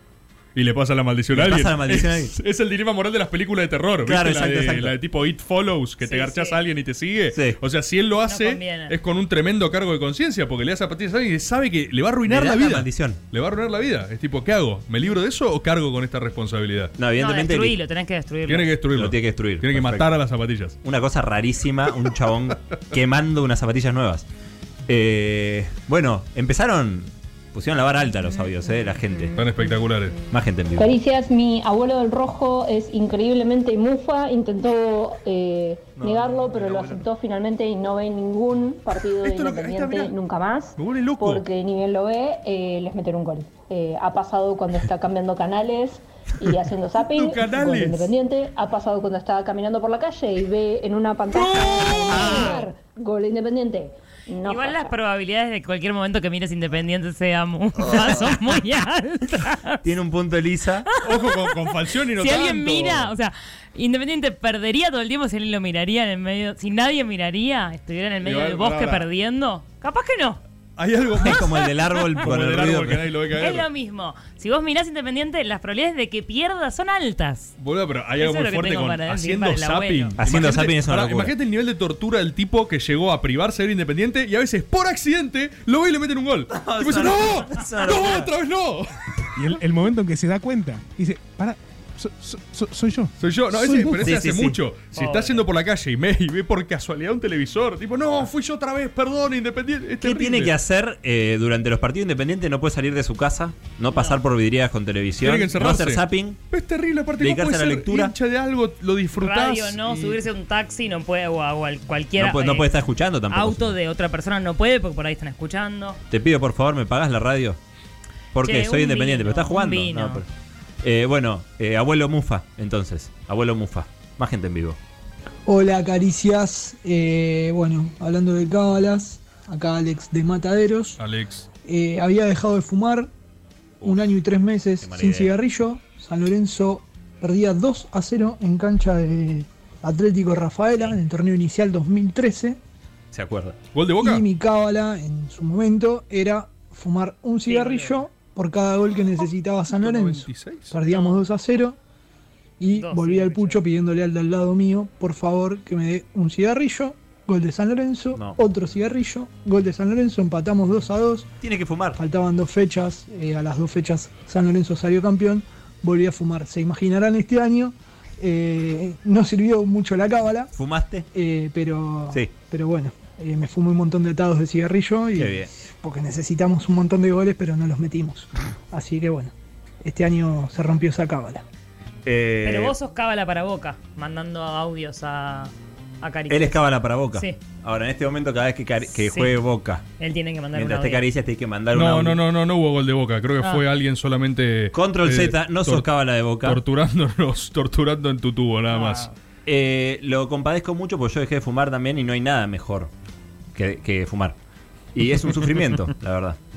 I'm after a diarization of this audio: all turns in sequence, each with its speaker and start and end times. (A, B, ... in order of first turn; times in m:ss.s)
0:00.6-0:16.9 A
0:01.3-0:02.3 B
0:04.0-0:04.9 B
0:06.0-0:06.6 C
0:08.3-0:08.9 C
0:12.3-0:13.2 B
0:17.0-0:17.8 B
0:17.2-0:18.7 C
0:18.5-0:20.8 A
0:18.9-0:20.1 B
0:20.8-0:24.3 B
0:24.9-0:29.4 B
0:29.4-0:30.2 A
0:30.3-0:31.0 B
0:30.8-0:54.8 D
0:36.0-0:37.0 B
0:39.0-0:40.2 A
0:40.8-0:41.5 A
0:46.9-0:48.1 A
0:51.3-0:52.6 A
0:52.2-0:52.6 C
0:54.4-0:59.8 C
0:59.8-1:00.9 B
1:01.0-1:03.1 A
1:01.2-1:01.5 C
1:02.2-1:10.4 C
1:08.2-1:09.1 A
1:10.8-1:11.5 A
1:11.2-1:13.0 B
1:12.2-1:13.7 A
1:13.4-1:17.5 C
1:17.6-1:28.9 A
1:18.2-1:20.1 C
1:20.2-1:21.3 B
1:26.5-1:28.3 B
1:29.4-1:34.2 E
1:33.2-1:40.5 A
1:34.0-1:34.6 B
1:34.9-1:35.4 C
1:40.0-1:46.4 B
1:43.9-1:44.2 C
1:45.2-1:50.2 A
1:47.2-1:48.1 B
1:49.2-1:52.7 C
1:52.2-1:53.8 B
1:53.3-1:56.0 C
1:56.1-1:57.6 B
1:58.3-2:00.3 B
1:58.4-2:00.2 C
2:00.8-2:04.8 B
2:05.5-2:11.0 F
2:11.0-2:11.5 A
2:11.6-2:13.1 F
2:13.8-2:14.2 B
2:13.8-2:22.6 F
2:14.8-2:15.4 B
2:23.1-2:23.6 B
2:23.7-2:24.2 A
2:24.0-2:31.8 F
2:27.5-2:28.0 C
2:29.7-2:30.8 A
2:30.9-2:31.2 C
2:32.6-2:41.3 F
2:32.7-2:33.6 C
2:38.1-2:38.4 B
2:41.4-2:42.0 B
2:42.0-2:50.5 F
2:50.5-2:51.1 B
2:51.1-3:01.4 F
2:55.2-2:55.5 B
3:02.1-3:02.8 B
3:02.4-3:06.6 C
3:06.3-3:09.8 B
3:08.9-3:09.4 C
3:10.0-3:11.0 C
3:10.5-3:12.2 B
3:11.7-3:15.9 A
3:14.7-3:16.6 B
3:16.4-3:19.1 A
3:18.7-3:19.1 C
3:19.5-3:22.9 B
3:23.5-3:24.4 B
3:25.0-3:26.4 B